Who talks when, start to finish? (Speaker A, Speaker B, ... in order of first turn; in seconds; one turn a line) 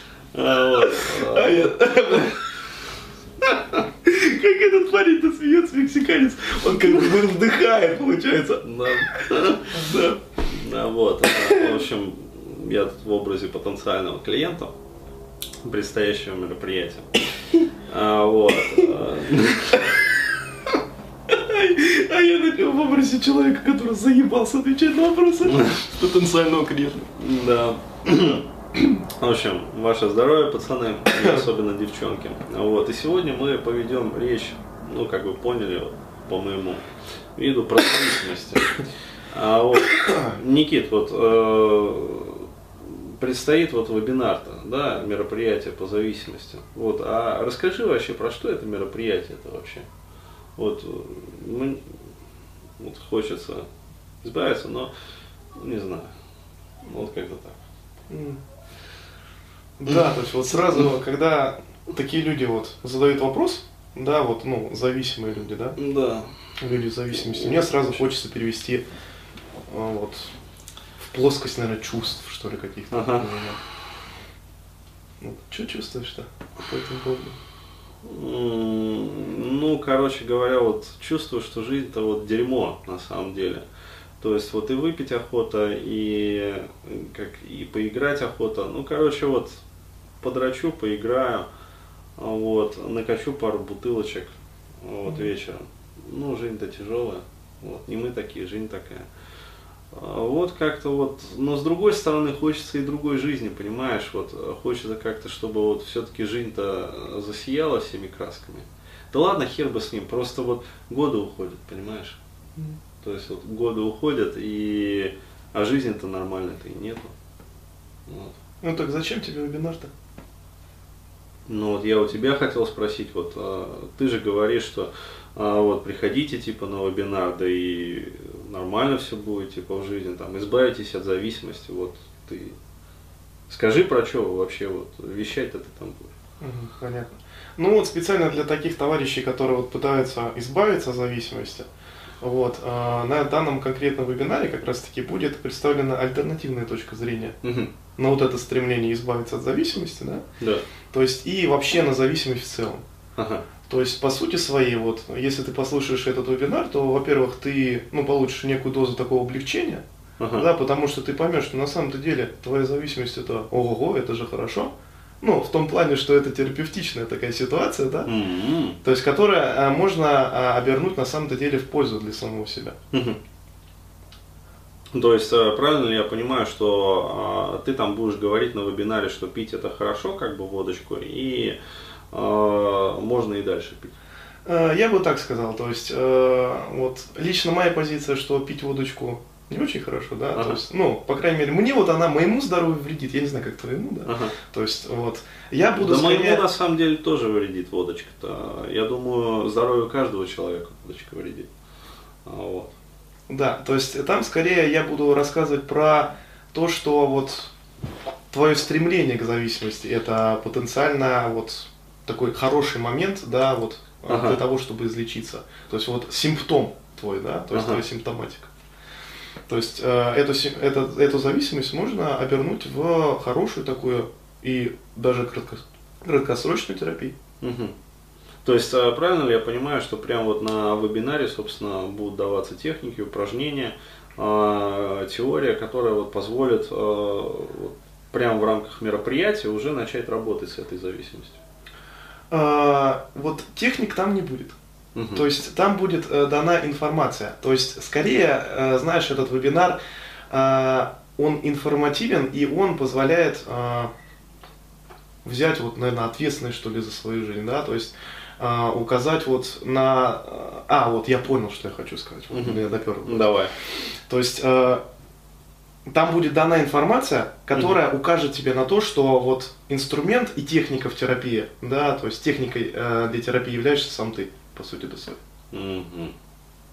Speaker A: 0.3-2.2
Speaker B: 0.7-2.4
Speaker B: 3.8-10.2
Speaker A: 8.6-9.8
Speaker A: 10.5-14.7
Speaker B: 11.4-11.7
Speaker A: 15.6-17.1
Speaker A: 17.9-19.9
Speaker B: 21.3-27.1
Speaker A: 25.5-25.8
Speaker A: 27.2-28.4
Speaker A: 29.2-36.9
Speaker B: 31.1-31.4
Speaker A: 37.4-49.9
Speaker B: 40.0-40.3
Speaker A: 50.6-52.0
Speaker A: 52.8-53.7
Speaker A: 54.2-54.9
Speaker A: 55.6-56.1
Speaker A: 56.9-57.6
Speaker B: 58.1-58.4
Speaker B: 59.8-65.8
Speaker A: 65.8-66.3
Speaker B: 66.6-68.8
Speaker A: 67.1-68.1
Speaker B: 69.7-70.3
Speaker B: 71.0-73.6
Speaker A: 72.9-73.3
Speaker B: 75.2-77.4
Speaker A: 78.0-83.6
Speaker A: 84.2-89.6
Speaker A: 90.2-91.5
Speaker A: 92.2-99.1
Speaker B: 95.1-95.3
Speaker A: 99.9-112.2
Speaker A: 113.0-117.1
Speaker A: 118.1-118.3
Speaker B: 118.6-119.9
Speaker A: 121.5-132.6
Speaker A: 133.5-136.1
Speaker B: 136.4-141.7
Speaker B: 142.2-147.4
Speaker A: 147.4-147.7
Speaker B: 148.0-150.2
Speaker B: 150.9-152.8
Speaker A: 153.2-153.5
Speaker B: 153.7-168.1
Speaker A: 160.2-160.5
Speaker A: 168.1-168.8
Speaker B: 168.8-172.8
Speaker A: 172.9-173.2
Speaker A: 174.9-181.6
Speaker A: 182.1-183.9
Speaker B: 184.4-196.4
Speaker A: 190.3-190.6
Speaker A: 194.1-194.4
Speaker A: 195.8-201.5
Speaker A: 202.2-202.7
Speaker B: 203.3-207.5
Speaker B: 208.3-218.5
Speaker A: 214.1-214.4
Speaker A: 217.5-217.8
Speaker B: 219.5-227.2
Speaker A: 227.4-227.7
Speaker A: 228.4-241.4
Speaker B: 242.3-244.6
Speaker A: 244.9-245.3
Speaker B: 245.1-249.8
Speaker B: 250.3-253.9
Speaker B: 255.2-263.4
Speaker A: 262.3-263.5
Speaker B: 264.1-264.8
Speaker B: 265.9-275.2
Speaker A: 267.5-267.8
Speaker A: 275.5-276.1